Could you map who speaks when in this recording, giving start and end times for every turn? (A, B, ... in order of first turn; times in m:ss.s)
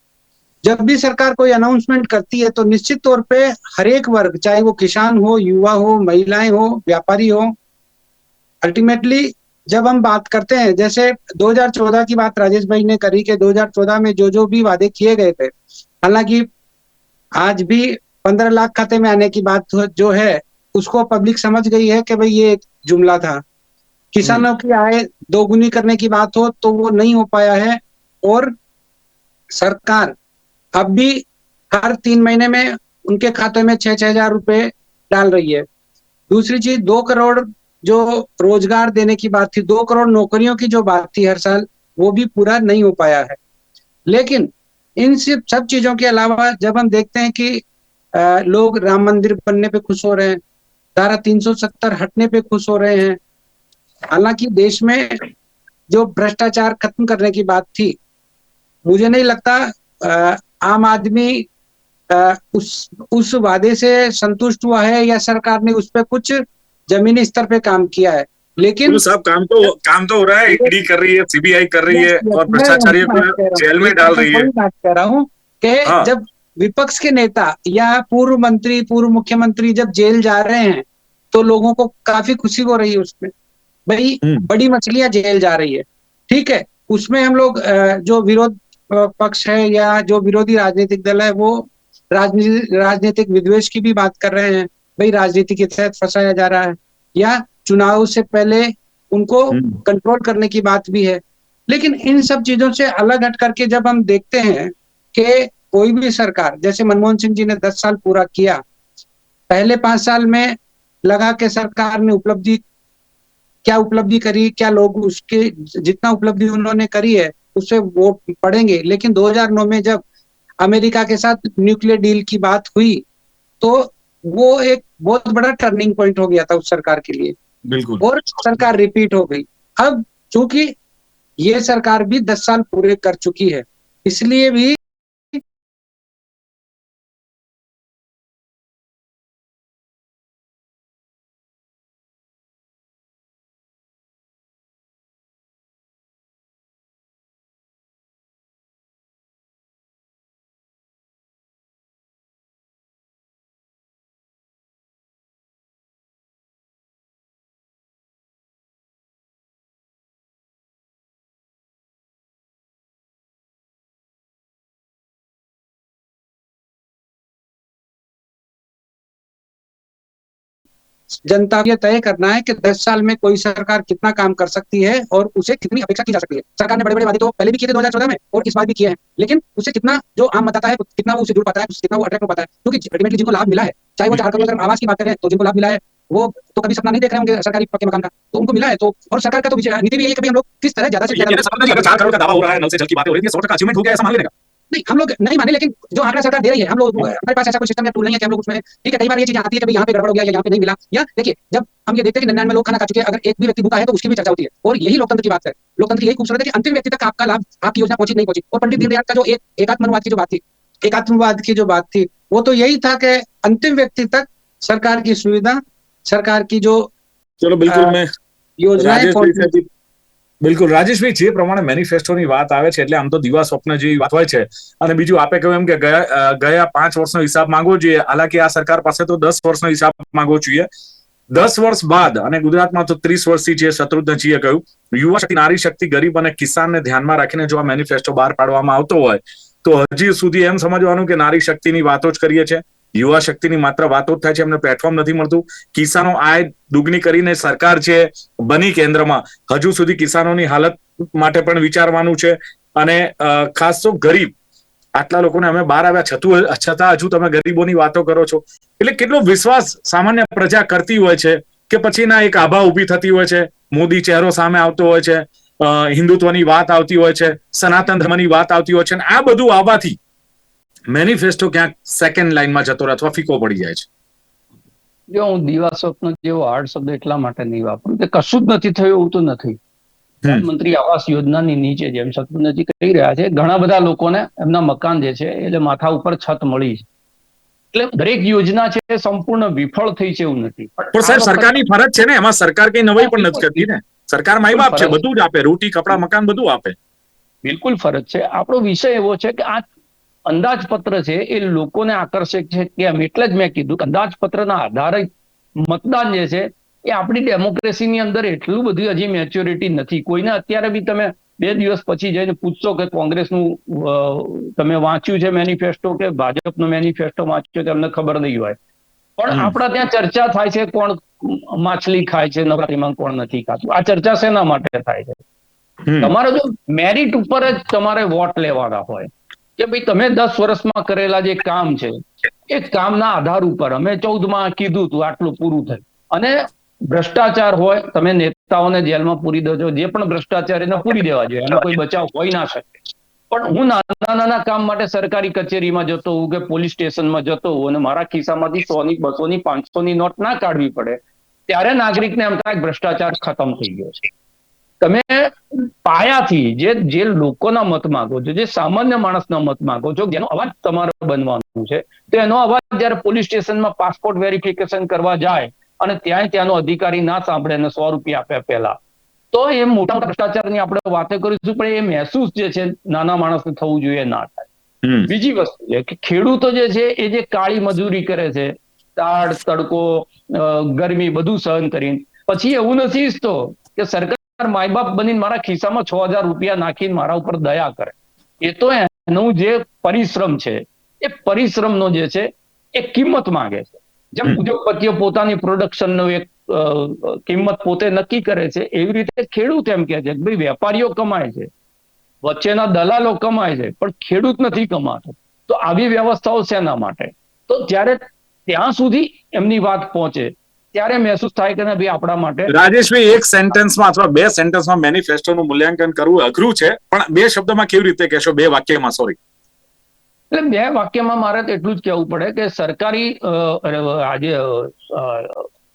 0:00.6-0:07.5 A
0:08.6-0:16.5 A
0:17.4-0:23.4 A
0:24.1-0:28.5 A
0:29.5-0:30.1 A
0:30.8-0:35.6 A
0:36.3-0:43.4 A
0:44.1-0:47.6 A
0:48.1-0:50.4 A
0:51.0-0:53.2 A
0:54.1-0:55.2 A
0:55.9-0:58.0 A
0:58.8-1:01.5 A
1:02.1-1:09.0 A
1:08.8-1:14.5 B
1:10.5-1:10.7 A
1:11.9-1:23.3 A
1:23.9-1:48.6 A
1:24.2-1:24.5 B
1:39.5-1:39.8 B
1:49.5-1:52.6 A
1:53.6-2:00.0 A
2:00.6-2:03.0 A
2:03.6-2:07.4 A
2:07.7-2:08.0 B
2:08.0-2:10.7 A
2:11.4-2:14.8 A
2:51.2-3:11.8 A
3:11.1-3:14.3 B
3:14.7-3:36.9 A
3:37.4-3:38.1 B
3:37.7-3:38.0 A
3:38.6-3:39.5 A
3:38.8-3:39.6 B
3:40.4-3:50.7 B
3:51.3-4:14.3 B
4:15.0-4:30.0 B
4:30.9-4:33.9 B
4:35.1-4:39.6 C
4:40.3-4:46.8 C
4:47.7-4:51.5 C
4:51.0-4:56.7 B
4:53.0-4:53.6 C
4:54.5-4:55.0 C
4:57.4-4:59.7 C
5:00.3-5:05.1 C
5:05.6-5:18.6 C
5:19.2-5:25.2 C
5:25.8-5:26.1 B
5:26.0-5:42.7 C
5:43.3-5:54.0 C
5:54.8-6:08.8 C
6:09.3-6:14.5 C
6:14.8-6:15.1 B
6:15.1-6:41.5 C
6:42.2-6:52.5 C
6:52.5-6:59.2 B
7:00.3-7:05.5 C